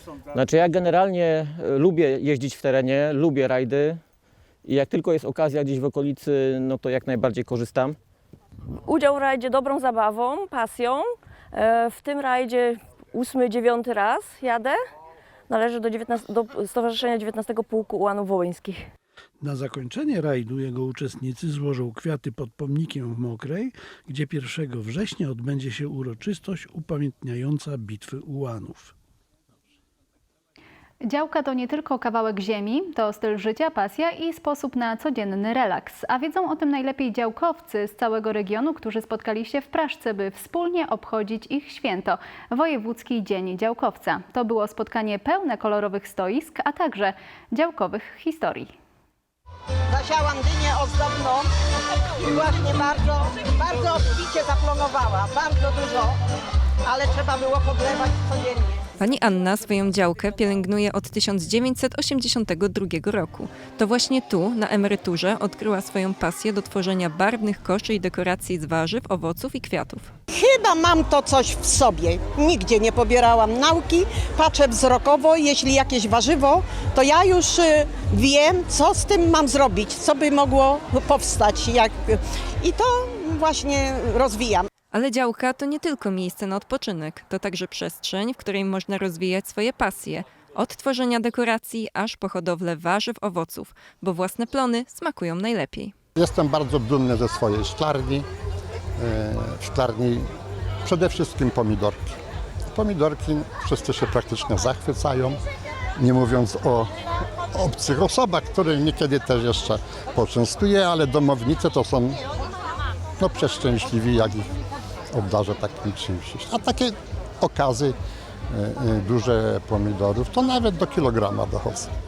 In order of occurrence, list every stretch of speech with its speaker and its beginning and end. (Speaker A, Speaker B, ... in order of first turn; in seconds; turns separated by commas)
Speaker A: 0.4-4.0, Speaker A: 4.7-8.0, Speaker B: 8.8-14.8, Speaker B: 15.5-18.9, Speaker C: 19.4-28.9, Speaker D: 31.0-48.7, Speaker E: 49.9-51.5, Speaker E: 52.2-56.2, Speaker E: 56.9-58.8, Speaker F: 59.0-70.1, Speaker E: 70.3-84.7, Speaker F: 84.9-95.9, Speaker G: 96.2-98.2, Speaker G: 99.0-100.2, Speaker G: 100.9-102.2, Speaker G: 102.7-105.4, Speaker G: 106.0-106.9, Speaker G: 107.5-112.2, Speaker G: 113.2-114.5, Speaker G: 115.1-117.9, Speaker G: 118.5-121.9